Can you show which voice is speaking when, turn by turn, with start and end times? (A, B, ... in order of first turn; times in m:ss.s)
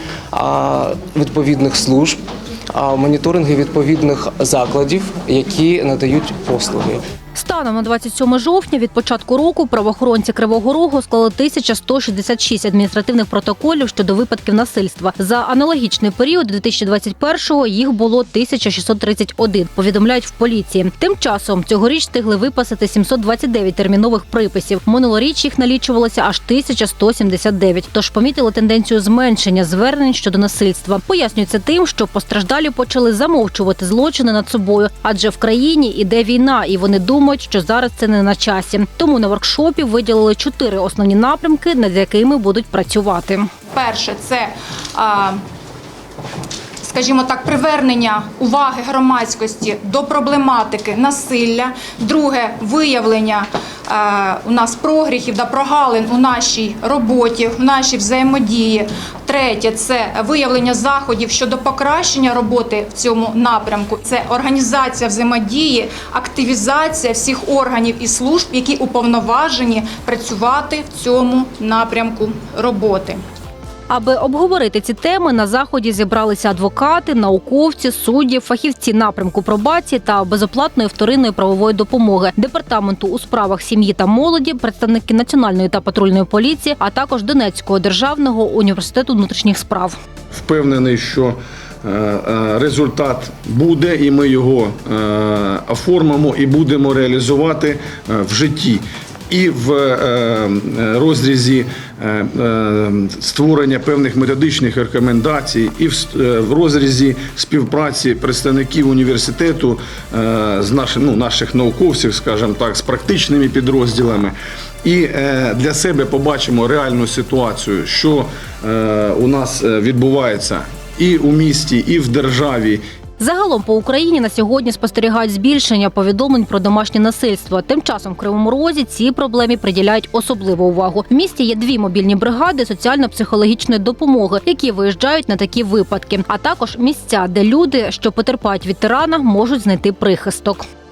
0:00.3-0:02.2 A
0:02.7-0:07.0 A
0:07.4-0:43.5 B
0:43.7-0:45.4 C
0:46.8-1:13.2 C
1:13.9-1:30.0 B
1:30.3-2:02.8 D
2:03.2-2:20.6 B